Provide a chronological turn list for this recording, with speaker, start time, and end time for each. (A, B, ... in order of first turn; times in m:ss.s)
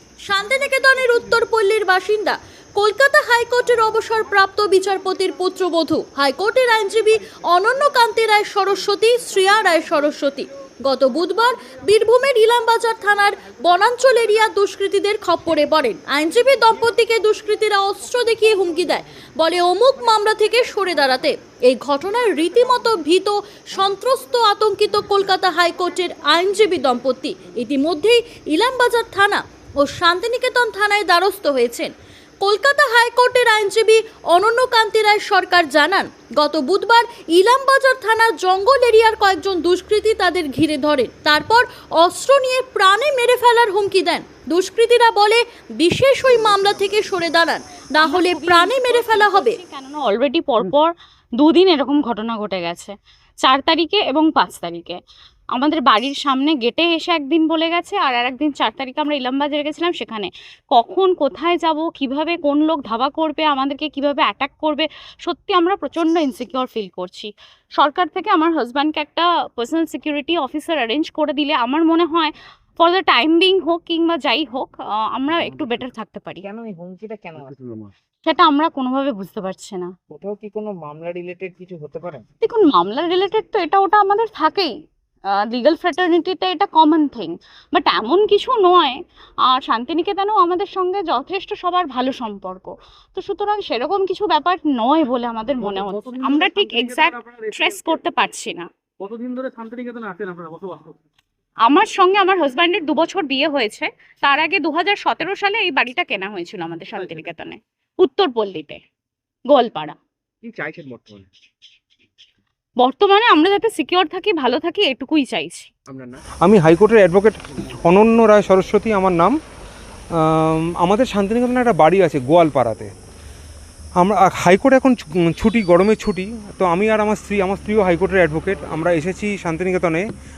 0:00.2-0:31.9 A
0:32.4-0:49.6 A
0:48.0-0:55.0 B
0:55.5-1:16.4 B
1:16.4-1:17.6 C
1:18.2-1:19.9 B
1:20.1-1:22.2 C
1:22.4-1:24.7 B
1:25.3-1:38.6 B
1:36.1-1:37.5 D
1:39.0-1:41.0 D
1:41.6-1:48.8 B
1:49.5-1:50.0 B
1:50.4-1:51.3 C
1:52.8-1:55.7 B
1:56.4-1:59.4 E
2:00.2-2:02.9 E
2:04.0-2:10.0 E